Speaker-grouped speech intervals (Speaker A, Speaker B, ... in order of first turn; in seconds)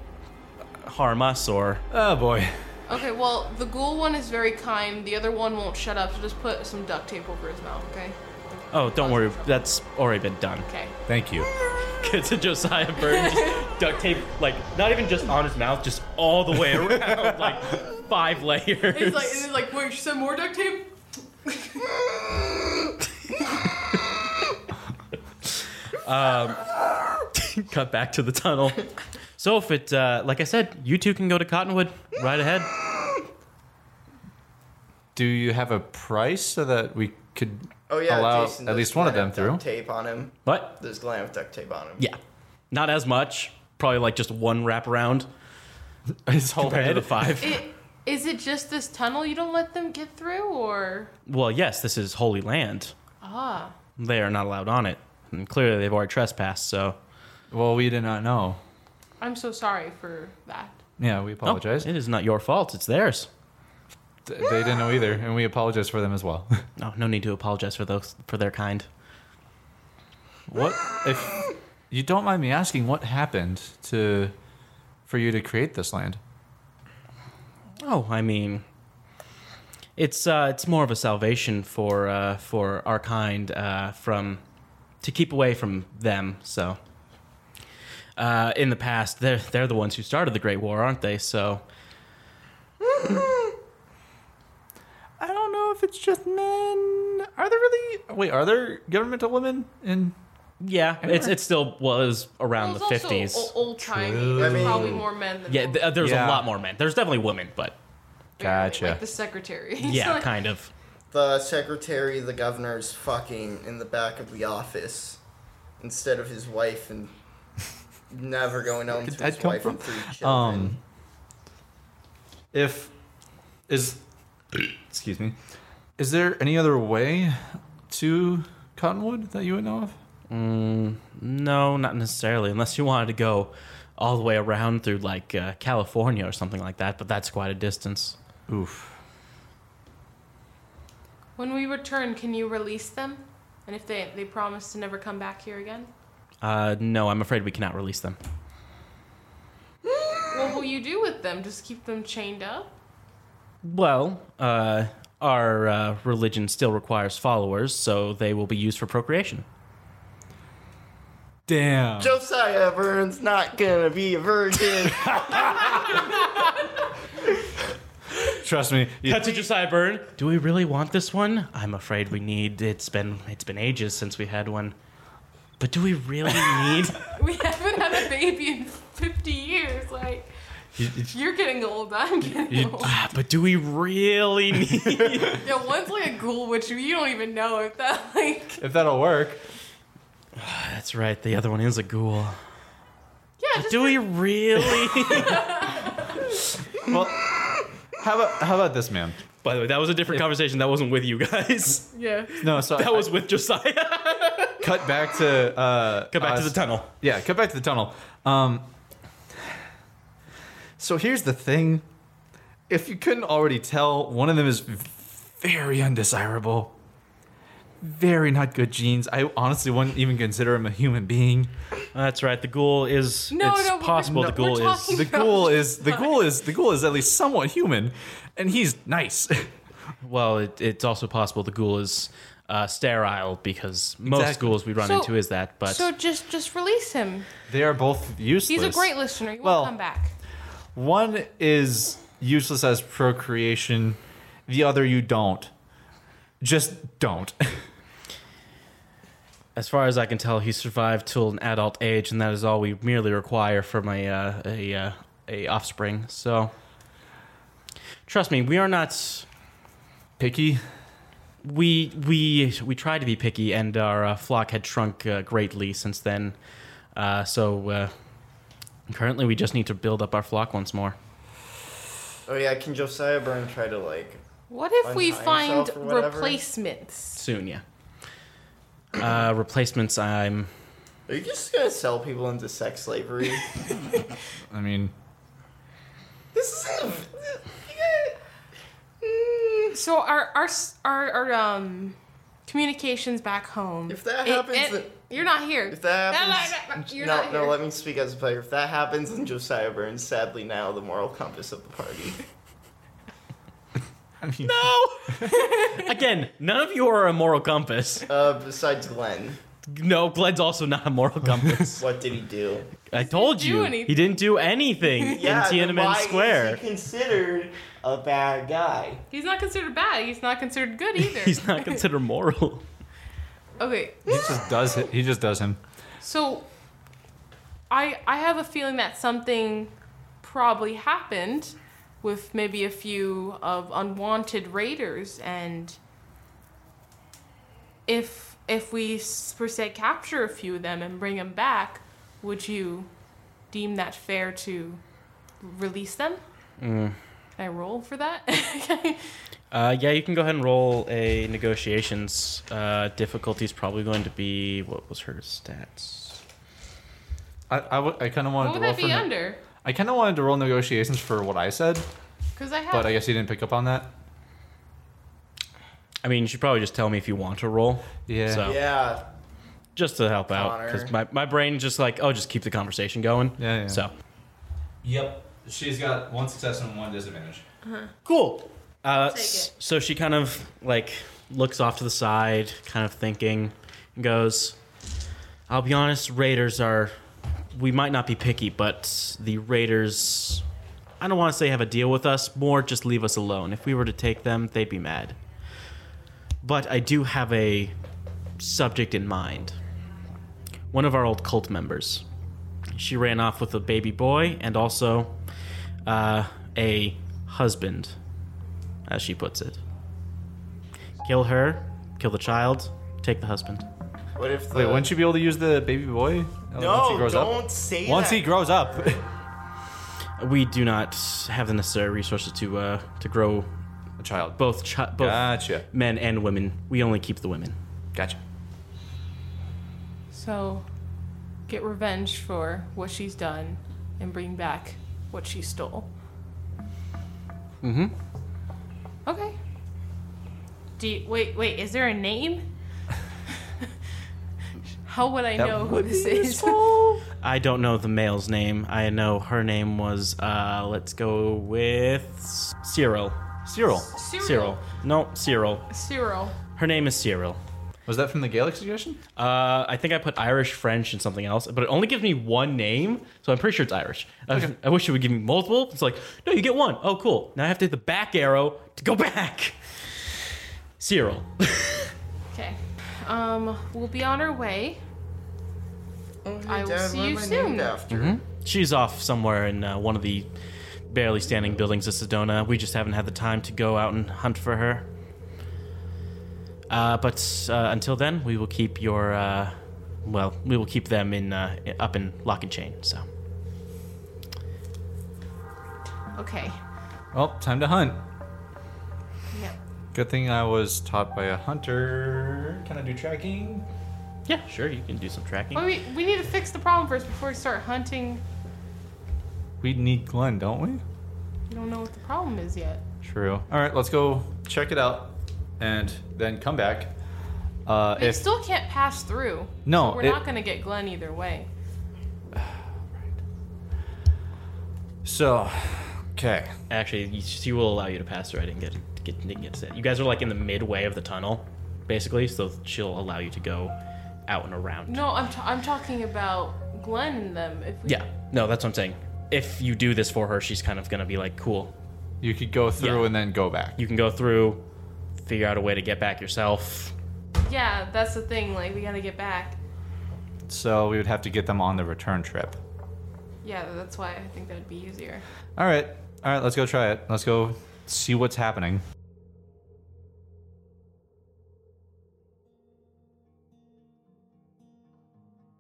Speaker A: 0.8-1.8, 8.7-10.7, 12.0-19.5, 26.0-26.6, 27.4-28.9, 29.4-32.7, 40.5-40.8, 42.7-45.3, 46.6-47.6, 51.3-52.9, 54.0-57.0, 61.5-63.3, 66.8-68.9, 77.8-78.6, 80.0-84.4, 85.0-86.8, 88.2-91.6, 100.6-103.5, 105.5-107.8, 109.8-110.7, 130.3-138.2, 146.4-148.2, 153.6-159.4, 169.0-174.8, 175.6-177.1, 182.9-185.4, 190.4-192.4, 193.6-195.7, 199.4-204.7, 206.1-206.9, 221.9-225.1, 230.0-235.9, 249.6-256.5, 258.1-259.3, 261.4-266.4, 266.9-267.9, 268.9-271.0, 277.2-277.6, 279.0-280.5, 305.7-308.1, 309.7-311.9, 312.9-316.6, 321.0-322.6, 346.6-347.0, 349.5-356.2, 366.0-368.6, 369.8-373.9, 378.1-384.6, 385.5-386.9, 387.5-390.4, 391.0-395.2, 396.4-397.7, 398.4-399.6, 400.7-402.0, 402.7-405.1, 405.9-408.0, 408.9-409.6, 411.0-413.6, 420.2-423.5, 424.4-427.6, 437.6-437.9, 447.2-453.2, 454.2-455.7, 456.6-457.4, 459.2-469.6, 470.8-471.9, 477.9-480.3, 480.9-484.9, 486.7-493.1, 504.3-505.7, 526.7-533.7, 534.3-535.0, 537.9-541.7, 542.8-543.1, 543.8-544.6, 545.2-546.9
Speaker B: 1.9-2.6, 11.1-11.5, 16.8-17.5, 35.1-39.6, 46.3-47.4, 57.5-58.6, 61.0-61.9, 64.3-66.6, 70.5-74.3, 75.1-76.2, 95.2-100.2, 101.0-101.3, 103.8-105.0, 106.0-106.5, 108.4-109.0, 118.9-120.8, 122.5-122.9, 123.7-124.0, 124.5-125.4, 126.0-130.0, 138.5-139.0, 161.5-162.2, 165.2-165.8, 168.4-169.4, 180.8-181.2, 182.5-183.1, 184.7-185.2, 188.6-189.4, 196.8-199.2, 202.4-203.1, 204.6-208.7, 210.8-211.8, 212.7-216.7, 217.8-221.5, 224.0-229.5, 234.1-234.6, 237.5-239.7, 240.8-245.5, 246.4-247.7, 260.2-260.6, 284.5-284.9, 304.2-305.4, 324.1-325.6, 357.5-359.1, 359.6-361.9, 362.7-363.9, 368.1-368.5, 373.4-373.8, 374.8-377.4, 414.5-419.0, 424.0-424.4, 425.0-425.6, 445.4-447.0, 453.5-453.9, 457.9-459.0, 497.1-498.0, 499.9-503.7, 509.6-510.8, 513.0-516.9, 517.6-518.3, 519.6-520.2, 522.3-523.1, 525.0-526.5, 542.2-543.8, 550.5-552.6, 555.6-558.8
Speaker C: 2.9-9.6, 10.7-10.9, 13.1-13.7, 18.9-20.9, 21.5-21.8, 47.4-51.1, 53.2-53.7, 59.2-60.8, 102.6-105.9, 108.4-110.3, 141.4-145.9, 150.3-152.7, 177.1-180.3, 181.1-182.9, 185.4-188.6, 193.4-196.1, 201.9-202.4, 223.3-226.2, 234.8-235.1, 235.7-237.3, 238.5-240.1, 274.5-277.2, 289.7-292.0, 292.5-297.6, 305.2-305.8, 312.9-314.2, 319.1-321.8, 323.6-324.2, 326.0-326.5, 327.7-335.8, 337.9-342.9, 343.5-344.8, 345.4-346.2, 347.4-349.1, 358.4-359.4, 362.4-363.0, 377.6-377.9, 379.1-379.5, 430.1-430.6, 431.5-435.9, 439.1-439.4, 440.8-442.4, 444.8-446.6, 453.9-454.6, 455.7-456.4, 472.3-474.8, 476.5-477.8, 496.2-496.6, 505.5-508.2, 511.5-512.8, 518.0-521.5, 534.9-538.0, 547.5-549.6, 553.4-555.2
Speaker D: 37.9-42.0, 92.9-93.3, 104.4-105.0, 111.1-115.2, 115.8-117.1, 118.1-120.8, 162.0-165.9, 272.3-274.2, 274.8-276.4, 281.1-283.7, 286.3-288.2, 289.0-289.8, 293.9-294.9, 295.7-302.2, 304.7-305.1, 308.1-309.4, 311.8-312.7, 315.1-319.0, 368.4-369.0, 370.3-370.9, 414.2-414.9, 416.6-419.0, 476.2-478.2